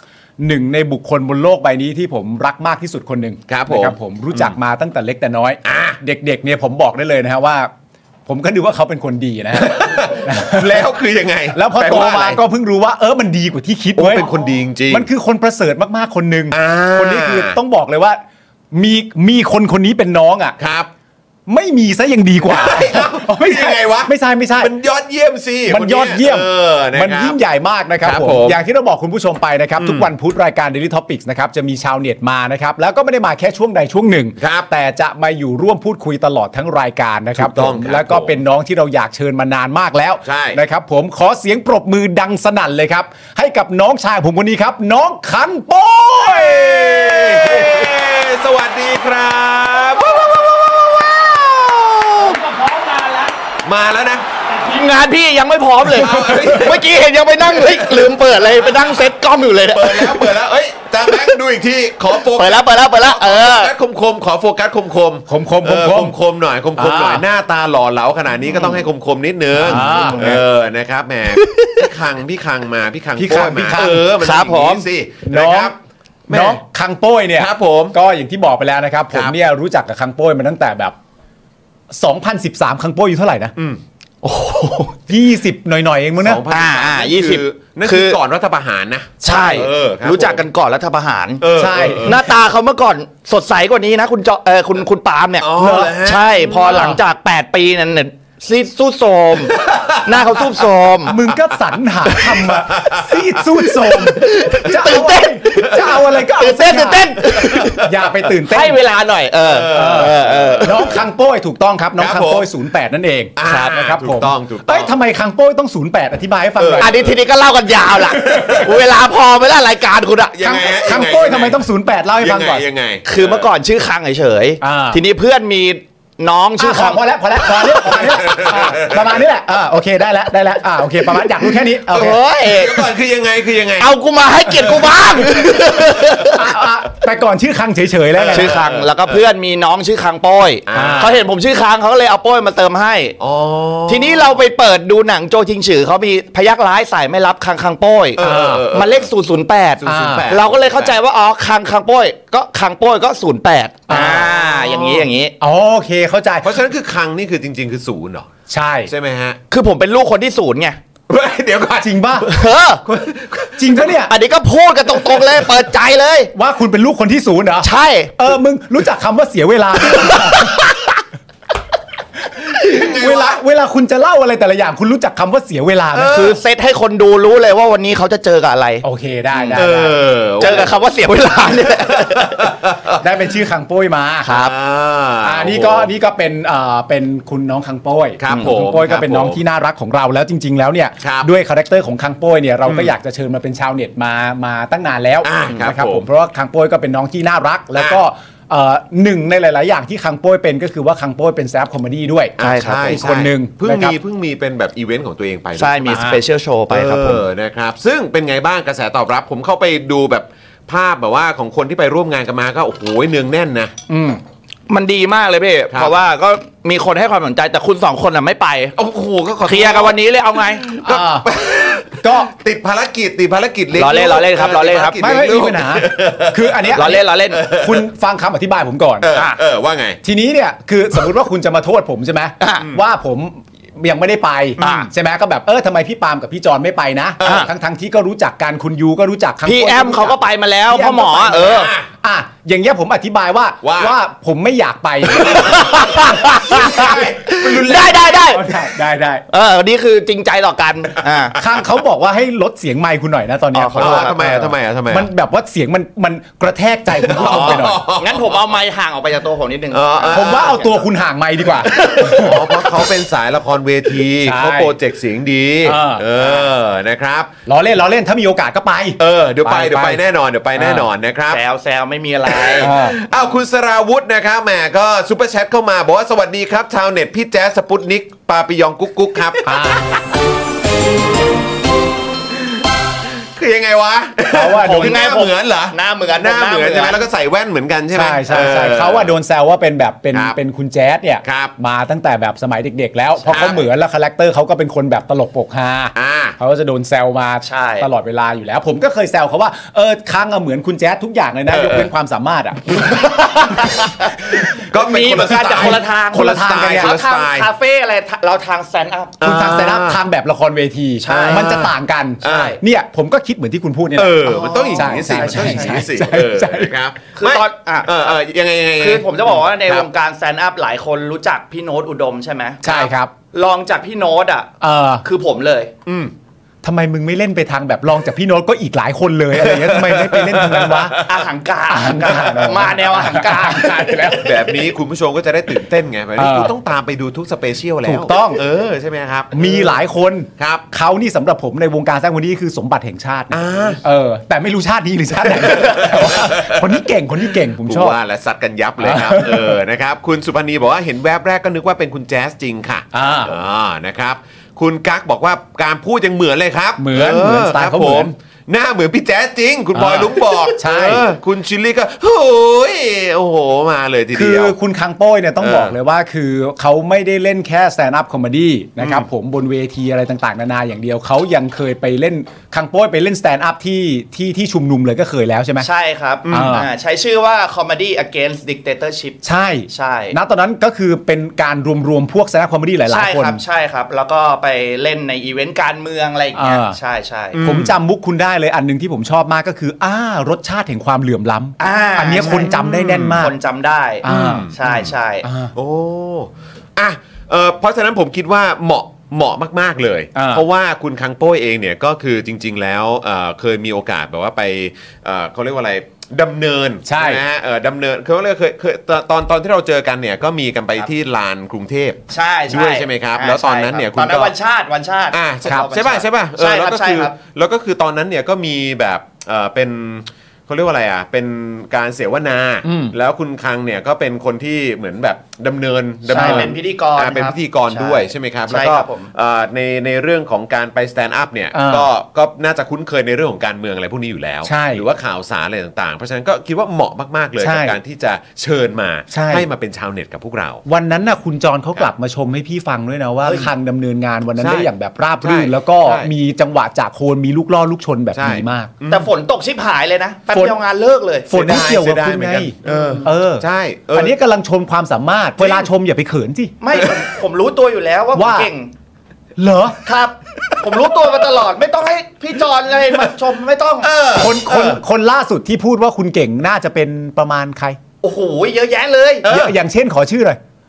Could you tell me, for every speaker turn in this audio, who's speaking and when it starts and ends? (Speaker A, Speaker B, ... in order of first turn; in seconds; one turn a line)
Speaker A: 0.4-7.7
Speaker B: 3.5-4.5
Speaker B: 5.6-6.0
Speaker A: 8.3-10.8
Speaker B: 9.5-12.4
Speaker A: 11.5-14.3
Speaker B: 13.9-15.1
Speaker A: 14.9-18.2
Speaker B: 16.5-17.6
Speaker A: 18.7-20.6
Speaker B: 20.6-20.9
Speaker A: 21.5-24.7
Speaker B: 22.4-27.4
Speaker A: 25.7-47.8
Speaker B: 28.0-28.6
Speaker B: 29.8-30.1
Speaker B: 34.4-34.7
Speaker B: 37.4-38.4
Speaker B: 40.2-40.6
Speaker B: 46.2-52.4
Speaker C: 52.2-53.4
Speaker B: 53.6-54.3
Speaker C: 54.5-60.3
Speaker B: 55.8-56.9
Speaker A: 55.9-56.6
Speaker B: 57.5-59.0
Speaker B: 59.7-75.8
Speaker C: 61.0-61.4
Speaker C: 62.1-63.7
Speaker A: 65.3-66.2
Speaker A: 66.8-67.2
Speaker C: 68.5-68.8
Speaker A: 69.5-70.4
Speaker C: 69.6-70.3
Speaker C: 71.3-71.9
Speaker A: 73.2-74.0
Speaker C: 74.2-74.8
Speaker A: 75.2-75.7
Speaker B: 76.3-76.6
Speaker A: 76.3-80.9
Speaker B: 77.4-77.9
Speaker A: 81.9-83.5
Speaker C: 84.2-85.0
Speaker A: 85.1-86.4
Speaker B: 86.2-90.4
Speaker C: 86.5-88.2
Speaker C: 89.2-91.5
Speaker B: 91.4-92.2
Speaker A: 91.5-92.2
Speaker C: 92.0-101.1
Speaker B: 95.4-96.9
Speaker A: 95.6-96.0
Speaker A: 96.7-97.0
Speaker B: 99.5-100.5
Speaker A: 101.1-107.2
Speaker B: 102.7-103.1
Speaker C: 103.8-111.0
Speaker B: 107.2-107.7
Speaker A: 107.7-108.8
Speaker B: 109.4-111.0
Speaker A: 109.7-117.0
Speaker B: 112.0-112.5
Speaker B: 113.4-115.0
Speaker B: 116.5-117.2
Speaker C: 116.8-120.3
Speaker A: 118.2-118.7
Speaker B: 120.3-121.7
Speaker A: 120.4-122.7
Speaker B: 122.2-123.5
Speaker C: 123.0-128.1
Speaker A: 124.6-125.0
Speaker A: 126.6-132.2
Speaker B: 128.2-128.8
Speaker C: 131.9-132.9
Speaker B: 131.9-133.9
Speaker C: 133.8-136.5
Speaker A: 136.3-138.6
Speaker B: 138.1-139.2
Speaker C: 138.3-143.2
Speaker B: 140.7-141.1
Speaker A: 140.7-141.2
Speaker B: 143.2-144.3
Speaker C: 143.9-155.3
Speaker B: 148.2-149.1
Speaker A: 148.2-148.6
Speaker B: 149.8-150.9
Speaker A: 149.8-150.3
Speaker A: 153.9-154.3
Speaker B: 153.9-155.1
Speaker A: 155.4-156.5
Speaker B: 156.4-158.3
Speaker A: 158.5-158.9
Speaker B: 158.8-159.4
Speaker C: 159.5-160.8
Speaker B: 161.1-162.0
Speaker A: 161.7-162.3
Speaker C: 162.2-162.8
Speaker B: 162.8-163.9
Speaker A: 163.6-164.1
Speaker C: 164.1-166.3
Speaker A: 166.3-170.7
Speaker C: 167.6-168.2
Speaker C: 169.9-170.8
Speaker A: 172.4-176.2
Speaker B: 172.5-173.4
Speaker B: 175.9-176.3
Speaker C: 176.1-179.6
Speaker A: 178.8-179.9
Speaker B: 179.6-180.7
Speaker C: 180.4-182.5
Speaker B: 181.9-183.0
Speaker A: 183.0-184.3
Speaker C: 184.2-184.5
Speaker B: 184.3-185.9
Speaker A: 185.2-204.0
Speaker B: 188.2-189.4
Speaker C: 188.3-188.6
Speaker B: 191.0-191.3
Speaker B: 192.7-192.9
Speaker B: 195.2-196.0
Speaker B: 197.7-198.0
Speaker C: 202.4-203.1
Speaker B: 202.4-213.7
Speaker C: 205.6-207.2
Speaker A: 213.9-214.2
Speaker C: 214.7-218.8
Speaker B: 218.8-226.8
Speaker C: 219.4-220.6
Speaker A: 220.8-221.3
Speaker A: 221.9-222.3
Speaker C: 223.7-225.0
Speaker A: 225.0-229.1
Speaker C: 226.7-227.4
Speaker B: 227.3-227.8
Speaker B: 229.0-230.0
Speaker C: 229.1-229.4
Speaker A: 230.0-240.2
Speaker C: 234.6-234.9
Speaker C: 237.2-237.5
Speaker C: 239.4-241.7
Speaker A: 240.7-245.6
Speaker B: 241.3-241.9
Speaker B: 243.6-243.9
Speaker C: 245.1-248.5
Speaker B: 245.4-247.9
Speaker A: 246.7-249.2
Speaker C: 249.3-251.4
Speaker A: 251.3-257.8
Speaker C: 253.5-254.2
Speaker B: 253.8-255.1
Speaker B: 257.1-258.4
Speaker C: 257.1-260.8
Speaker B: 259.7-260.6
Speaker A: 260.1-262.5
Speaker B: 261.8-267.3
Speaker C: 261.8-262.1
Speaker A: 264.2-264.7
Speaker A: 265.6-266.4
Speaker A: 267.5-270.0
Speaker B: 269.0-271.4
Speaker A: 270.6-270.9
Speaker C: 271.3-272.7
Speaker B: 272.3-279.4
Speaker A: 272.6-273.0
Speaker A: 279.4-280.0
Speaker B: 283.0-289.1
Speaker A: 284.3-285.0
Speaker C: 284.6-287.0
Speaker A: 287.9-302.9
Speaker B: 291.2-291.5
Speaker C: 293.2-293.6
Speaker B: 293.3-293.6
Speaker B: 295.9-296.4
Speaker C: 297.4-297.9
Speaker B: 301.5-301.9
Speaker C: 302.8-304.1
Speaker B: 304.3-307.5
Speaker C: 304.7-309.2
Speaker A: 305.1-306.9
Speaker B: 309.2-310.0
Speaker A: 309.2-316.7
Speaker C: 311.0-312.6
Speaker B: 311.1-311.7
Speaker B: 312.2-312.6
Speaker B: 313.9-319.9
Speaker C: 314.2-315.9
Speaker C: 317.1-318.1
Speaker C: 318.8-324.5
Speaker A: 322.6-323.1
Speaker A: 324.6-325.0
Speaker C: 325.0-325.7
Speaker B: 325.9-326.1
Speaker A: 326.6-331.0
Speaker B: 329.3-331.1
Speaker C: 331.0-334.2
Speaker A: 331.7-334.4
Speaker B: 334.2-339.8
Speaker A: 336.2-336.5
Speaker A: 337.8-338.4
Speaker A: 339.3-348.0
Speaker B: 340.4-340.6
Speaker B: 343.3-343.8
Speaker B: 345.4-346.7
Speaker B: 347.3-364.5
Speaker A: 348.8-349.6
Speaker A: 352.9-353.4
Speaker A: 356.8-358.1
Speaker A: 359.7-361.1
Speaker A: 364.1-375.7
Speaker B: 365.4-365.7
Speaker B: 368.8-369.0
Speaker C: 375.6-380.2
Speaker B: 376.2-376.6
Speaker A: 376.3-376.7
Speaker A: 379.2-383.4
Speaker C: 382.9-387.4
Speaker A: 386.3-386.8
Speaker B: 387.3-387.7
Speaker A: 387.4-393.4
Speaker C: 391.6-395.2
Speaker B: 392.6-393.2
Speaker A: 394.0-394.5
Speaker B: 394.1-394.9
Speaker A: 395.2-395.5
Speaker B: 395.5-414.3
Speaker A: 400.1-400.4
Speaker A: 406.8-407.2
Speaker C: 412.1-417.1
Speaker B: 415.1-440.6
Speaker A: 422.6-422.9
Speaker C: 426.1-429.1
Speaker A: 426.1-426.5
Speaker A: 431.5-431.9
Speaker A: 434.4-434.8
Speaker A: 437.4-437.8
Speaker A: 439.1-439.5
Speaker A: 440.6-448.7
Speaker B: 444.4-444.7
Speaker B: 445.2-446.1
Speaker B: 448.1-449.1
Speaker C: 448.9-451.3
Speaker A: 450.3-450.6
Speaker A: 451.3-456.5
Speaker B: 451.3-454.1
Speaker C: 452.6-453.1
Speaker C: 455.4-455.7
Speaker C: 456.6-458.7
Speaker A: 458.1-458.5
Speaker A: 459.4-459.8
Speaker C: 459.8-463.9
Speaker B: 463.8-464.8
Speaker A: 464.1-467.8
Speaker C: 468.0-469.3
Speaker B: 469.2-469.5
Speaker A: 469.3-470.4